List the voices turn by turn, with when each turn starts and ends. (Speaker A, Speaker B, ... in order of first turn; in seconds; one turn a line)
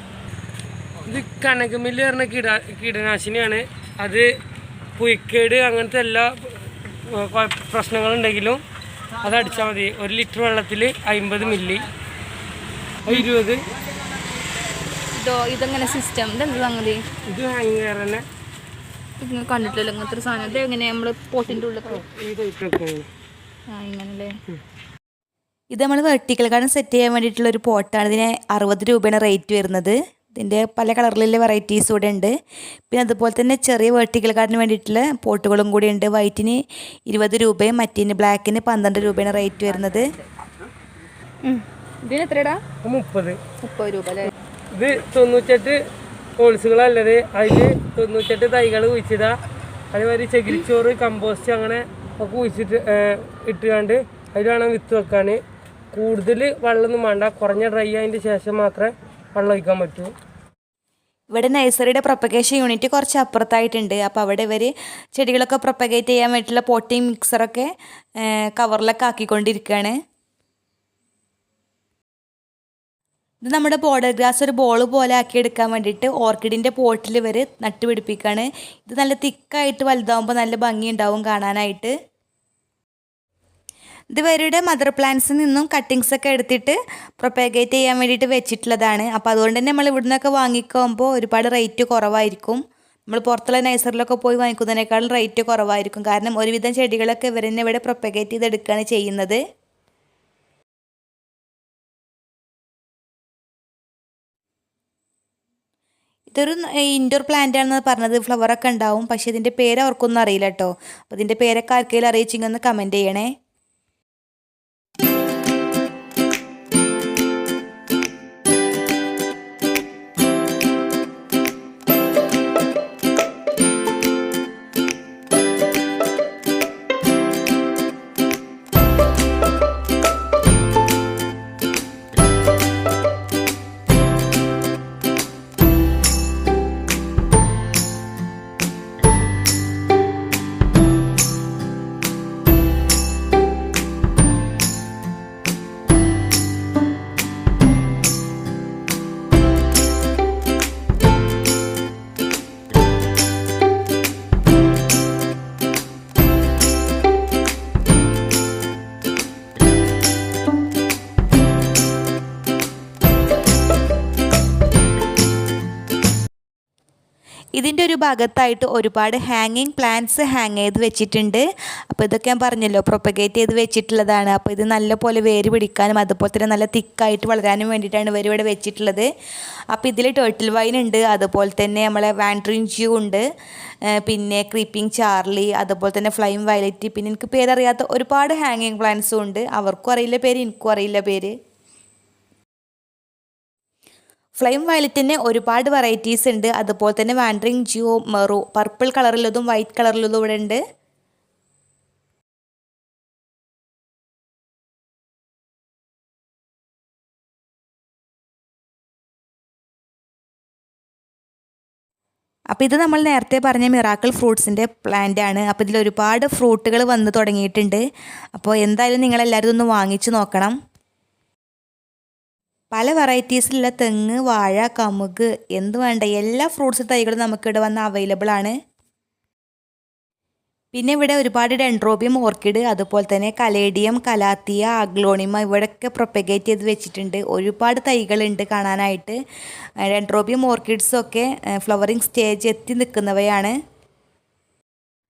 Speaker A: 1.1-4.3
Speaker A: 5.0-8.6
Speaker A: 9.2-11.9
Speaker A: 13.1-13.6
Speaker B: 15.1-17.1
Speaker A: 17.3-18.2
Speaker B: 19.2-22.0
Speaker A: 21.9-23.1
Speaker B: 23.7-24.3
Speaker C: 25.7-32.3
Speaker C: 32.9-40.1
Speaker B: 41.5-42.6
Speaker A: 42.8-43.4
Speaker B: 43.6-44.3
Speaker A: 44.8-45.8
Speaker A: 46.4-49.4
Speaker A: 49.9-55.4
Speaker A: 55.9-60.1
Speaker C: 61.3-67.7
Speaker C: 68.2-70.0
Speaker C: 73.4-81.9
Speaker C: 84.1-99.4
Speaker C: 106.3-113.3
Speaker C: 167.6-179.1
Speaker C: 179.7-183.2
Speaker C: 184.0-191.3
Speaker C: 194.4-200.6
Speaker C: 212.5-217.8
Speaker C: 218.3-220.6
Speaker C: 222.7-228.6
Speaker C: 230.7-239.2
Speaker C: 239.9-243.6